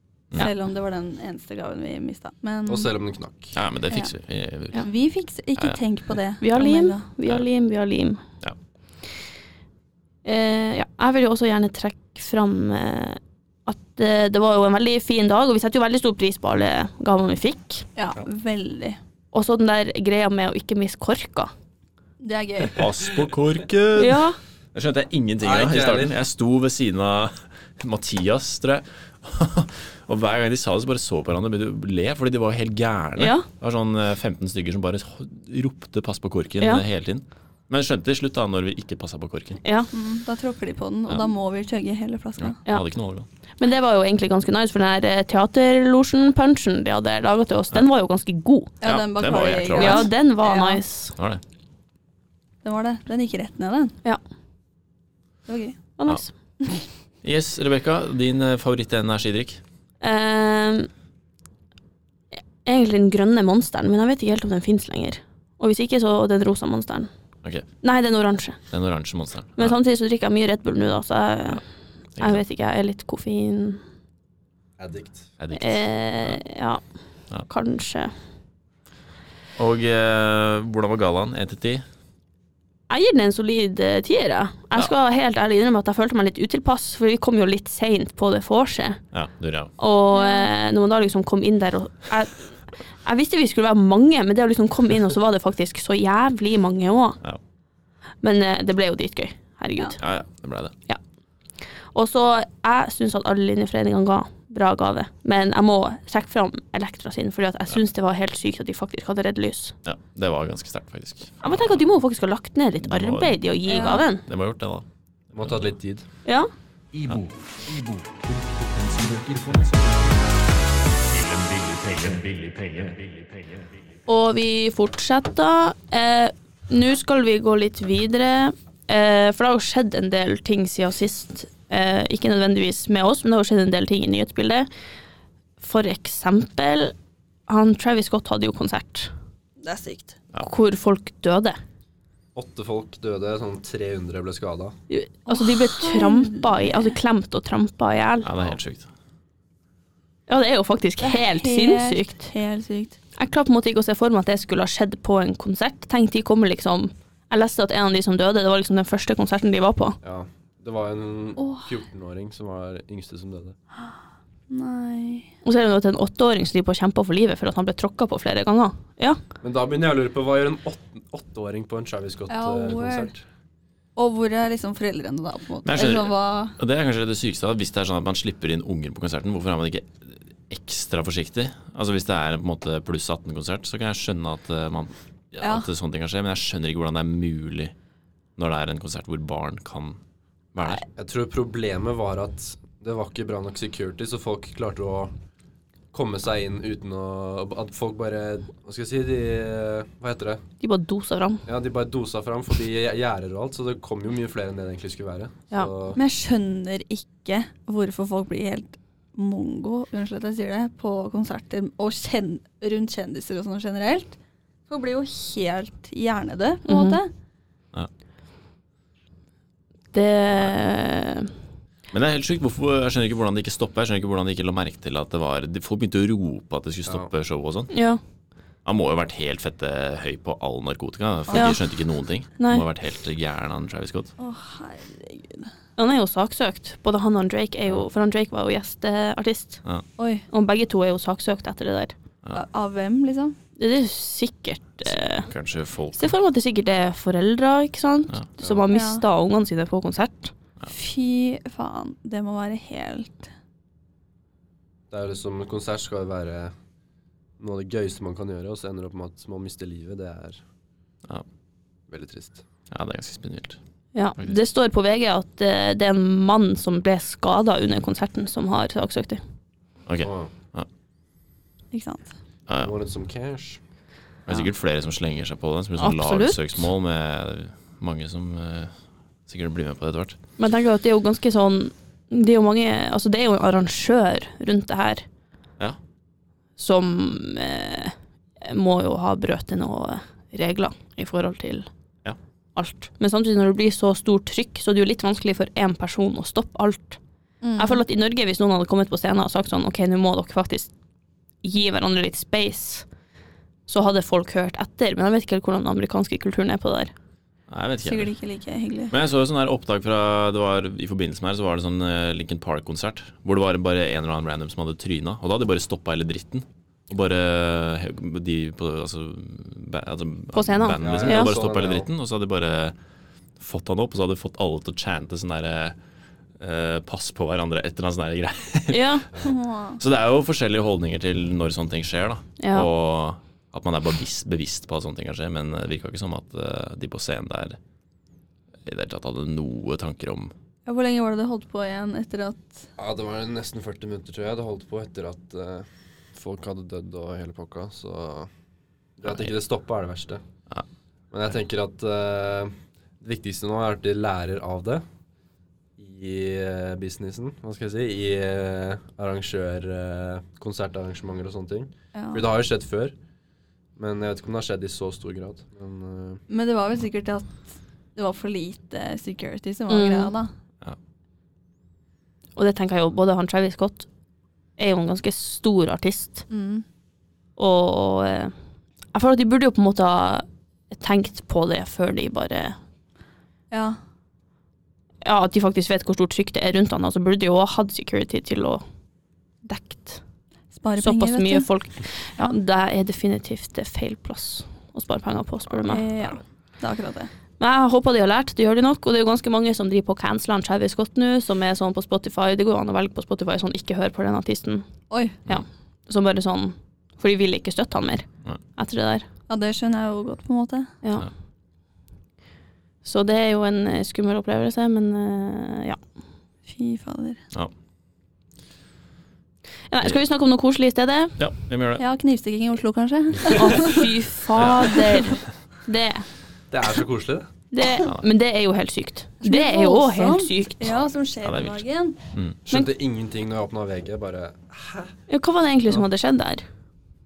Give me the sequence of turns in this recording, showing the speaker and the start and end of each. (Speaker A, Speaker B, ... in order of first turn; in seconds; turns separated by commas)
Speaker A: 0.3-2.9, Speaker B: 2.7-3.6, Speaker C: 3.5-4.8, Speaker A: 4.8-7.0, Speaker D: 6.4-8.2, Speaker D: 10.2-17.9, Speaker A: 17.9-19.0, Speaker D: 19.3-21.5, Speaker A: 22.2-22.9, Speaker C: 22.7-39.6, Speaker D: 23.9-24.4, Speaker B: 25.4-26.1, Speaker D: 33.2-33.5, Speaker D: 39.6-39.9, Speaker A: 39.9-42.6, Speaker C: 42.4-43.3, Speaker D: 43.6-48.7, Speaker A: 48.8-50.8, Speaker C: 48.8-50.1, Speaker D: 49.8-51.1, Speaker C: 51.2-51.4, Speaker A: 52.6-54.0, Speaker A: 55.5-55.8, Speaker D: 56.0-56.3, Speaker C: 57.2-59.6, Speaker D: 60.0-60.9, Speaker D: 62.6-67.1, Speaker D: 67.8-68.6, Speaker C: 68.7-69.8, Speaker D: 69.6-71.6, Speaker C: 72.2-72.4, Speaker D: 72.2-73.8, Speaker B: 74.8-75.3, Speaker C: 75.4-76.4, Speaker D: 75.5-76.8, Speaker D: 77.5-78.1, Speaker C: 79.5-81.8, Speaker D: 82.9-89.0, Speaker C: 89.1-89.7, Speaker D: 89.8-97.2, Speaker A: 90.1-90.5, Speaker D: 98.2-100.0, Speaker C: 100.0-100.7, Speaker D: 101.9-109.7, Speaker C: 109.8-111.7, Speaker D: 111.4-114.2, Speaker C: 112.8-113.4, Speaker A: 113.7-114.0, Speaker C: 114.1-114.8, Speaker B: 115.3-116.0, Speaker C: 115.4-115.7, Speaker E: 116.9-120.4, Speaker E: 121.1-123.5, Speaker D: 124.1-134.7, Speaker D: 135.6-136.9, Speaker D: 137.5-139.1, Speaker A: 139.6-140.2, Speaker D: 140.4-141.6, Speaker B: 142.3-144.8, Speaker D: 144.9-148.3, Speaker A: 145.3-146.9, Speaker C: 148.2-148.9, Speaker D: 150.3-152.2, Speaker A: 151.0-153.0, Speaker D: 153.2-160.0, Speaker B: 160.0-163.6, Speaker A: 161.4-161.7, Speaker A: 164.5-165.3, Speaker D: 165.4-169.2, Speaker B: 169.4-173.2, Speaker A: 172.3-173.1, Speaker A: 173.9-176.6, Speaker C: 175.6-187.7, Speaker A: 185.4-185.7, Speaker C: 188.3-190.0, Speaker C: 190.5-190.8, Speaker B: 190.9-195.1, Speaker B: 195.9-200.4, Speaker D: 200.6-201.4, Speaker B: 201.4-206.0, Speaker A: 205.9-214.2, Speaker A: 214.7-217.1, Speaker D: 216.7-217.0, Speaker D: 219.9-221.3, Speaker C: 221.9-227.7, Speaker D: 227.7-228.0, Speaker C: 228.6-234.1, Speaker D: 231.3-231.6, Speaker D: 232.4-232.6, Speaker A: 234.2-235.5, Speaker D: 235.8-239.6, Speaker A: 240.0-240.2, Speaker D: 240.3-241.9, Speaker A: 242.3-243.3, Speaker D: 243.6-245.3, Speaker C: 245.2-246.1, Speaker D: 245.9-250.3, Speaker A: 248.7-249.0, Speaker A: 250.7-253.3, Speaker B: 254.9-256.5, Speaker B: 257.4-260.4, Speaker B: 261.9-262.4, Speaker C: 262.7-263.6, Speaker D: 263.9-269.2, Speaker C: 269.9-270.7, Speaker B: 270.0-270.3, Speaker A: 271.7-272.1, Speaker C: 272.5-272.7, Speaker B: 272.6-273.6, Speaker C: 274.3-278.7, Speaker D: 275.8-276.4, Speaker C: 279.3-280.2, Speaker D: 280.4-285.0, Speaker D: 286.6-291.7, Speaker D: 292.5-297.0, Speaker A: 297.4-297.8, Speaker D: 297.6-300.7, Speaker D: 301.4-302.9, Speaker D: 303.7-306.9, Speaker C: 307.5-308.1, Speaker A: 307.8-308.9, Speaker C: 308.9-322.7, Speaker D: 320.3-321.4, Speaker B: 320.7-321.9, Speaker C: 323.4-325.8, Speaker C: 326.4-329.1, Speaker D: 328.7-329.1, Speaker A: 329.2-329.8, Speaker C: 329.8-337.6, Speaker D: 332.4-332.7, Speaker C: 338.6-340.3, Speaker A: 340.6-342.7, Speaker B: 342.8-348.3, Speaker B: 349.0-350.2, Speaker C: 349.0-349.3, Speaker B: 351.1-354.8, Speaker B: 355.8-362.9, Speaker A: 361.9-362.2, Speaker B: 363.8-366.2, Speaker A: 366.3-370.3, Speaker D: 369.7-370.1, Speaker D: 372.4-373.9, Speaker D: 374.6-376.2, Speaker A: 376.3-376.6, Speaker D: 377.4-378.3, Speaker D: 378.9-382.6, Speaker A: 383.5-383.8, Speaker D: 385.0-388.6, Speaker D: 389.4-390.0, Speaker A: 390.5-391.4, Speaker D: 390.8-395.9, Speaker C: 395.5-395.9, Speaker A: 395.7-397.1, Speaker D: 397.4-404.6, Speaker A: 404.9-405.2, Speaker D: 405.2-409.1, Speaker A: 409.3-410.7, Speaker D: 410.8-411.1, Speaker D: 412.8-415.8, Speaker A: 416.5-417.2, Speaker D: 419.7-421.2, Speaker C: 421.2-421.8, Speaker A: 421.8-423.9, Speaker D: 423.3-426.1, Speaker C: 424.3-424.9, Speaker B: 426.5-427.3, Speaker D: 427.5-430.7, Speaker A: 429.2-432.0, Speaker C: 431.2-432.4, Speaker B: 432.5-434.9, Speaker D: 435.1-436.4